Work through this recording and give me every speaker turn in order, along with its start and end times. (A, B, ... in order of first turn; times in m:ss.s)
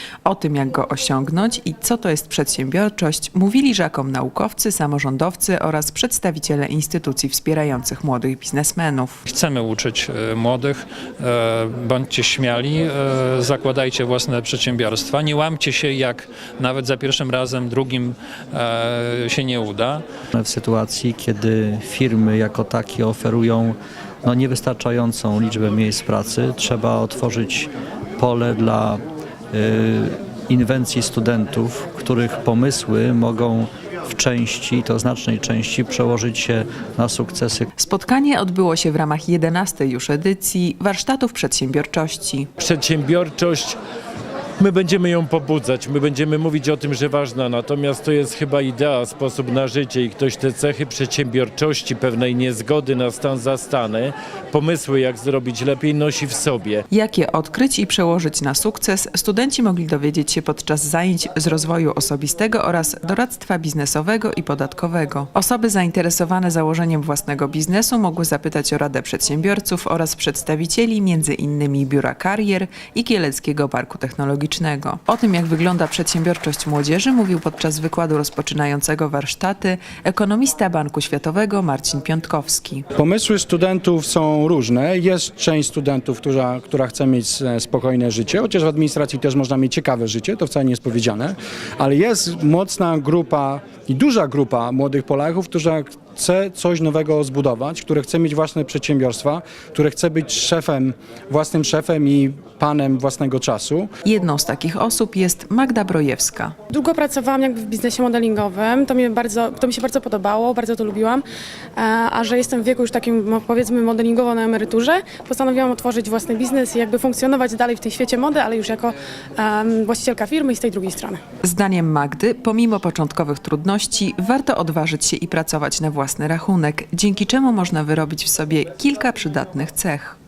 0:00.2-0:09.2 A
0:09.3-0:20.0 B
0:20.3-0:37.7 C
0:37.8-0:42.5 A
0:42.6-0:43.8 D
0:44.6-0:56.8 D
0:56.9-1:22.8 A
1:23.0-1:43.9 E
1:44.0-1:46.5 A
1:46.7-1:51.2 F
1:51.8-2:01.2 F
2:01.4-2:10.2 A